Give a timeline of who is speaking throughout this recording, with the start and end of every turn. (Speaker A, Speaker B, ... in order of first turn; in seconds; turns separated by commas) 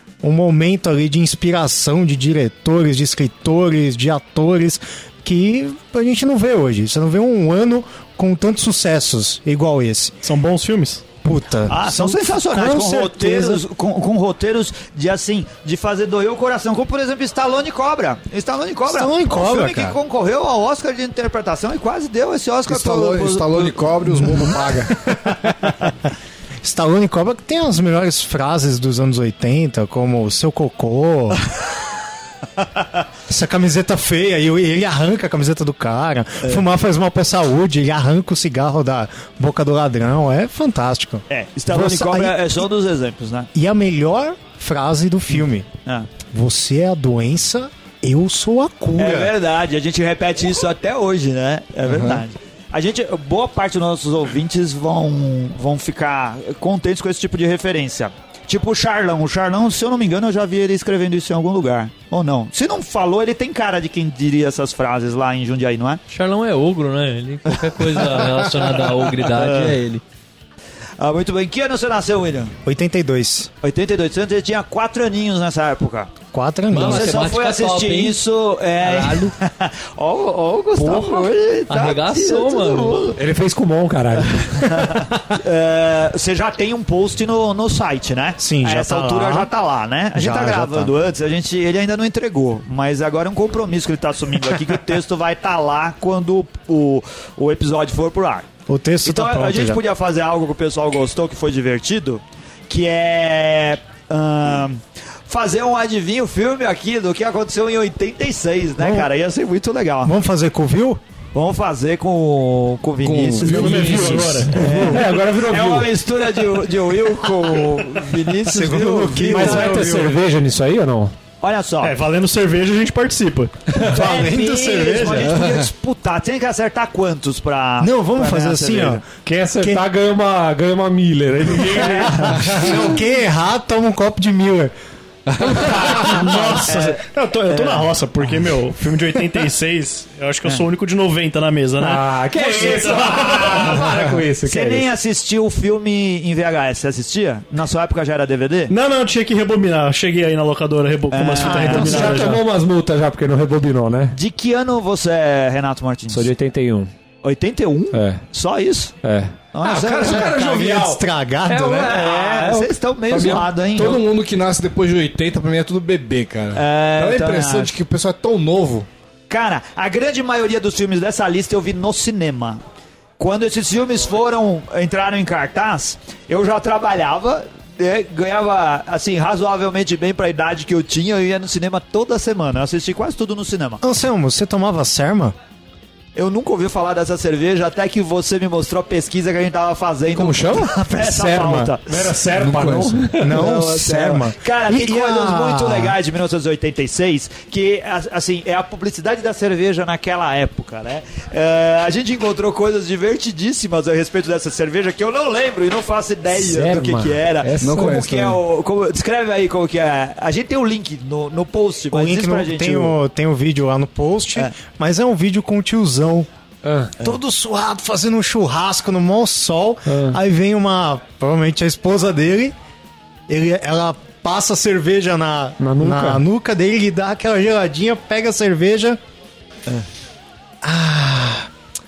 Speaker A: 0.2-10.2, Speaker B: 10.2-11.1, Speaker A: 11.2-13.6, Speaker C: 11.7-23.8, Speaker A: 18.9-20.0, Speaker D: 22.7-25.1, Speaker A: 25.1-25.6, Speaker A: 26.6-31.4, Speaker A: 33.3-42.6, Speaker C: 41.3-43.5, Speaker A: 43.5-45.7, Speaker A: 46.3-49.4, Speaker C: 49.0-66.0, Speaker D: 51.9-52.2, Speaker E: 66.1-70.0, Speaker C: 67.6-68.4, Speaker C: 69.1-69.8, Speaker C: 71.0-72.5, Speaker A: 72.7-73.5, Speaker C: 73.6-76.1, Speaker A: 76.3-77.2, Speaker E: 76.7-78.2, Speaker C: 76.7-83.2, Speaker E: 78.8-79.3, Speaker E: 81.7-83.2, Speaker F: 83.2-85.0, Speaker C: 84.6-98.5, Speaker A: 88.4-89.5, Speaker A: 90.1-90.9, Speaker A: 98.7-99.8, Speaker C: 99.0-110.1, Speaker A: 108.8-109.1, Speaker A: 110.0-111.0, Speaker C: 111.3-119.8, Speaker D: 113.0-114.5, Speaker B: 113.4-114.6, Speaker F: 114.5-115.9, Speaker A: 118.5-120.2, Speaker F: 119.2-121.2, Speaker C: 121.4-122.0, Speaker B: 121.8-123.6, Speaker A: 123.7-125.3, Speaker C: 123.8-129.0, Speaker D: 125.3-125.6, Speaker A: 127.8-129.0, Speaker F: 129.2-132.7, Speaker A: 129.6-129.9, Speaker C: 131.8-132.8, Speaker A: 132.1-134.7, Speaker D: 135.3-135.9, Speaker F: 135.6-136.5, Speaker B: 136.1-143.8, Speaker C: 136.6-137.9, Speaker F: 141.8-144.9, Speaker C: 142.6-143.8, Speaker C: 144.4-148.7, Speaker B: 148.7-152.4, Speaker C: 151.1-152.3, Speaker F: 151.4-154.2, Speaker C: 154.1-156.3, Speaker F: 156.1-156.9, Speaker C: 157.2-159.0, Speaker F: 157.9-158.2, Speaker F: 159.0-162.7, Speaker C: 159.5-160.5, Speaker A: 159.9-162.1, Speaker C: 161.8-164.0, Speaker D: 163.1-168.9, Speaker C: 166.5-167.7, Speaker C: 169.3-172.6, Speaker C: 173.2-183.8, Speaker A: 183.8-185.3, Speaker C: 186.2-192.1, Speaker D: 190.1-190.8, Speaker A: 190.9-191.7, Speaker F: 191.9-193.5, Speaker D: 192.3-193.0, Speaker A: 193.2-196.0, Speaker C: 193.3-213.0, Speaker F: 206.3-208.0, Speaker D: 207.6-208.4, Speaker A: 211.9-216.3, Speaker F: 216.6-216.9, Speaker A: 217.0-222.5, Speaker F: 219.9-220.2, Speaker A: 223.3-229.0, Speaker F: 225.6-226.2, Speaker A: 230.6-231.5